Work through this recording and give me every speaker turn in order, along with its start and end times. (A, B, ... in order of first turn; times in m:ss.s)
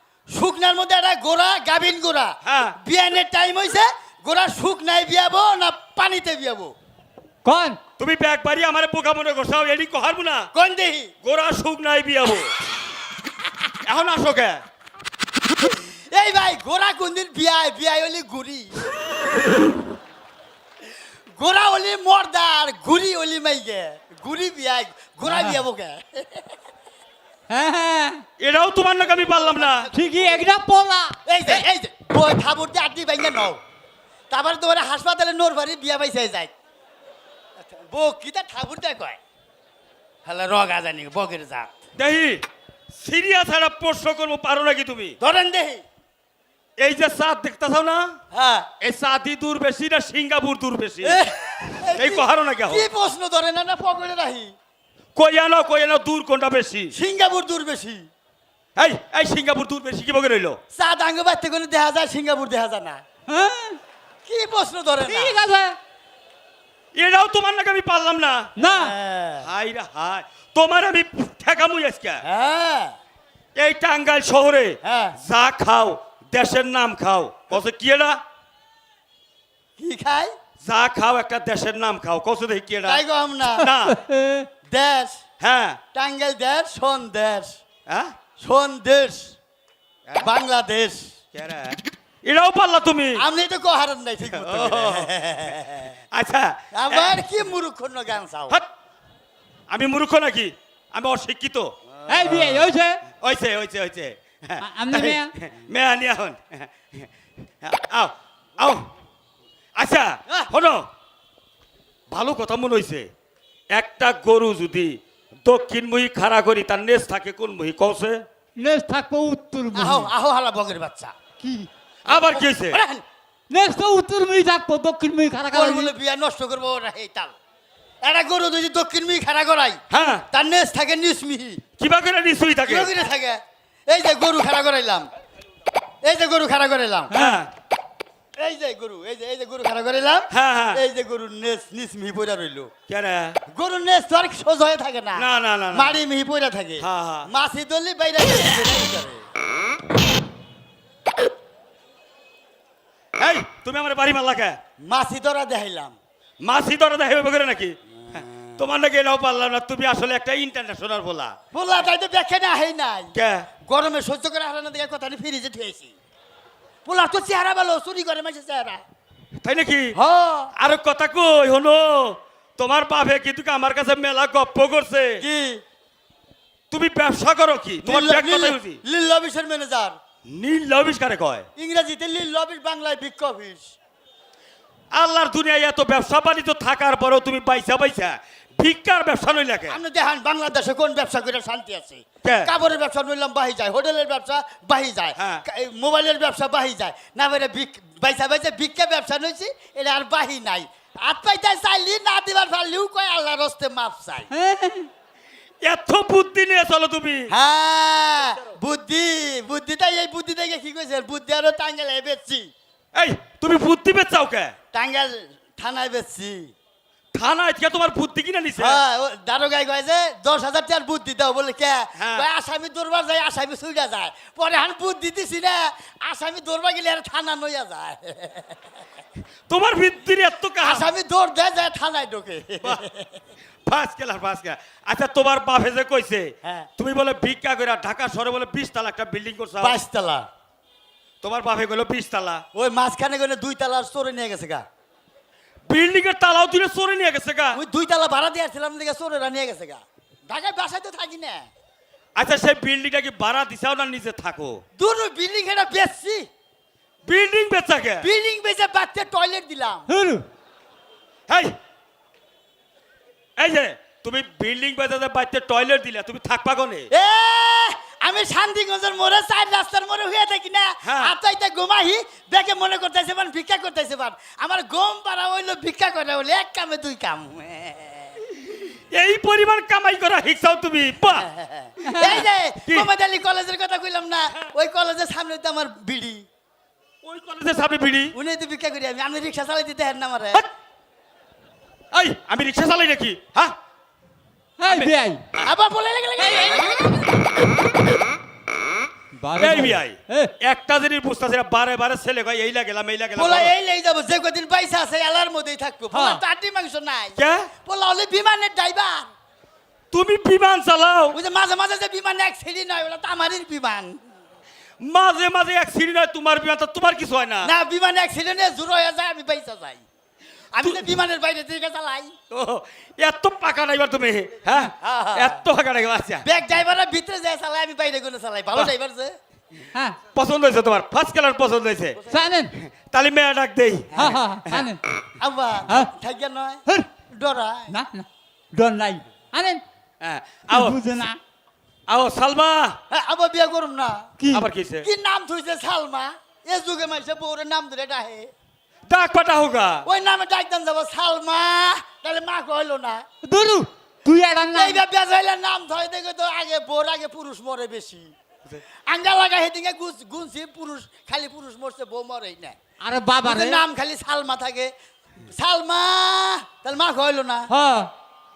0:00.3-0:06.7 A
0:02.4-0:02.8 B
0:07.4-0:07.8 C
0:08.0-0:10.5 B
0:10.5-0:11.1 A
0:11.2-0:12.5 B
0:13.8-0:14.6 B
0:16.1-0:18.9 A
0:21.4-0:26.5 A
0:25.3-0:25.6 C
0:27.5-0:28.2 C
0:28.4-0:29.9 B
0:29.3-0:30.4 A
0:29.9-0:31.6 C
0:31.2-0:33.6 A
0:34.3-0:36.5 A
0:37.6-0:39.2 A
0:40.2-0:41.7 A
0:42.0-0:42.4 B
0:43.0-0:45.2 B
0:45.2-0:45.8 A
0:46.8-0:48.2 B
0:48.3-0:48.7 A
0:48.8-0:51.2 B
0:51.0-0:54.5 A
0:52.0-0:52.9 B
0:55.2-0:56.9 B
0:56.9-0:58.1 A
0:58.8-1:00.6 B
1:00.7-1:03.0 A
1:03.3-1:03.8 C
1:04.2-1:05.4 A
1:05.0-1:05.8 C
1:07.0-1:08.5 B
1:08.6-1:08.9 C
1:08.7-1:09.5 A
1:09.4-1:12.2 B
1:12.2-1:13.0 A
1:13.6-1:18.2 B
1:14.8-1:15.2 A
1:19.8-1:20.3 A
1:20.6-1:23.0 B
1:22.9-1:23.7 A
1:23.6-1:24.0 B
1:23.8-1:24.5 C
1:24.7-1:25.2 A
1:25.4-1:25.8 B
1:25.9-1:27.6 A
1:27.9-1:28.1 B
1:28.4-1:29.4 A
1:30.2-1:31.1 A
1:31.3-1:33.2 B
1:33.2-1:36.0 A
1:34.3-1:35.1 B
1:36.1-1:37.2 B
1:36.7-1:38.6 A
1:39.7-1:41.7 B
1:42.0-1:42.7 A
1:42.1-1:43.0 C
1:43.2-1:47.1 B
1:44.6-1:45.3 C
1:47.6-1:48.9 B
1:49.8-1:50.9 B
1:52.1-1:53.1 B
1:53.7-1:58.2 B
1:58.6-2:00.1 C
1:59.7-2:01.1 A
2:01.4-2:01.7 C
2:02.1-2:02.8 B
2:02.1-2:03.0 A
2:03.5-2:05.9 C
2:05.5-2:07.3 A
2:08.0-2:11.6 A
2:09.9-2:10.2 B
2:11.8-2:12.9 B
2:12.7-2:15.1 A
2:16.0-2:17.1 A
2:17.1-2:17.5 B
2:17.1-2:17.4 C
2:18.4-2:22.7 A
2:20.3-2:20.8 B
2:22.9-2:23.4 B
2:23.5-2:29.2 A
2:25.2-2:26.0 B
2:26.8-2:27.3 B
2:33.2-2:34.6 B
2:34.8-2:36.0 A
2:36.4-2:41.4 B
2:38.1-2:38.6 A
2:41.5-2:43.1 A
2:43.2-2:43.5 B
2:43.7-2:46.0 A
2:46.8-2:48.8 A
2:49.4-2:50.0 B
2:50.0-2:50.5 A
2:50.6-2:55.2 B
2:55.2-2:55.6 A
2:56.7-2:58.8 B
2:57.8-3:00.0 A
3:00.3-3:01.5 B
3:01.6-3:03.7 A
3:04.9-3:09.8 B
3:09.7-3:24.3 A
3:12.2-3:12.5 B
3:15.2-3:15.4 B
3:24.3-3:24.9 C
3:25.6-3:27.3 B
3:27.3-3:32.5 A
3:33.0-3:34.6 B
3:34.7-3:36.5 A
3:37.1-3:38.8 B
3:38.6-3:48.6 A
3:42.0-3:42.3 B
3:49.5-3:50.9 B
3:50.6-3:53.2 A
3:53.7-3:59.8 B
3:56.4-3:56.7 A
3:59.6-4:00.3 A
4:01.2-4:02.4 B
4:02.5-4:04.6 A
4:05.7-4:07.6 B
4:07.5-4:11.5 A
4:12.2-4:14.6 B
4:14.8-4:16.3 A
4:17.0-4:18.1 B
4:18.0-4:19.9 A
4:19.9-4:20.2 C
4:21.3-4:21.6 B
4:23.4-4:26.9 B
4:26.9-4:38.2 A
4:30.8-4:31.2 B
4:38.5-4:41.3 B
4:41.2-4:46.2 A
4:41.8-4:42.2 C
4:47.0-4:48.2 B
4:48.1-4:50.4 A
4:51.9-4:53.6 B
4:54.6-4:55.2 C
4:54.7-4:55.4 B
4:55.4-4:57.2 A
4:56.4-4:56.9 C
4:59.2-5:00.3 C
4:59.4-5:03.5 B
5:03.2-5:09.1 A
5:05.9-5:06.2 C
5:07.2-5:07.5 B
5:09.9-5:11.2 B
5:11.1-5:14.0 A
5:14.8-5:17.5 B
5:17.4-5:19.8 A
5:20.5-5:22.1 A
5:20.6-5:20.9 B
5:22.3-5:26.2 B
5:24.8-5:25.4 A
5:26.2-5:29.2 A
5:30.1-5:32.0 B
5:32.1-5:32.5 C
5:32.5-5:34.7 B
5:34.0-5:34.8 C
5:35.2-5:37.8 A
5:37.7-5:39.6 C
5:40.0-5:40.8 B
5:40.5-5:41.2 C
5:41.9-5:42.8 B
5:42.9-5:44.1 A
5:44.2-5:44.5 C
5:44.3-5:44.9 B
5:44.8-5:48.3 A
5:48.9-5:49.9 B
5:49.9-5:53.1 A
5:53.2-5:54.8 C
5:54.5-5:58.1 A
5:58.9-6:02.6 A
6:02.8-6:03.6 C
6:03.2-6:04.7 A
6:05.3-6:07.5 A
6:07.5-6:07.9 C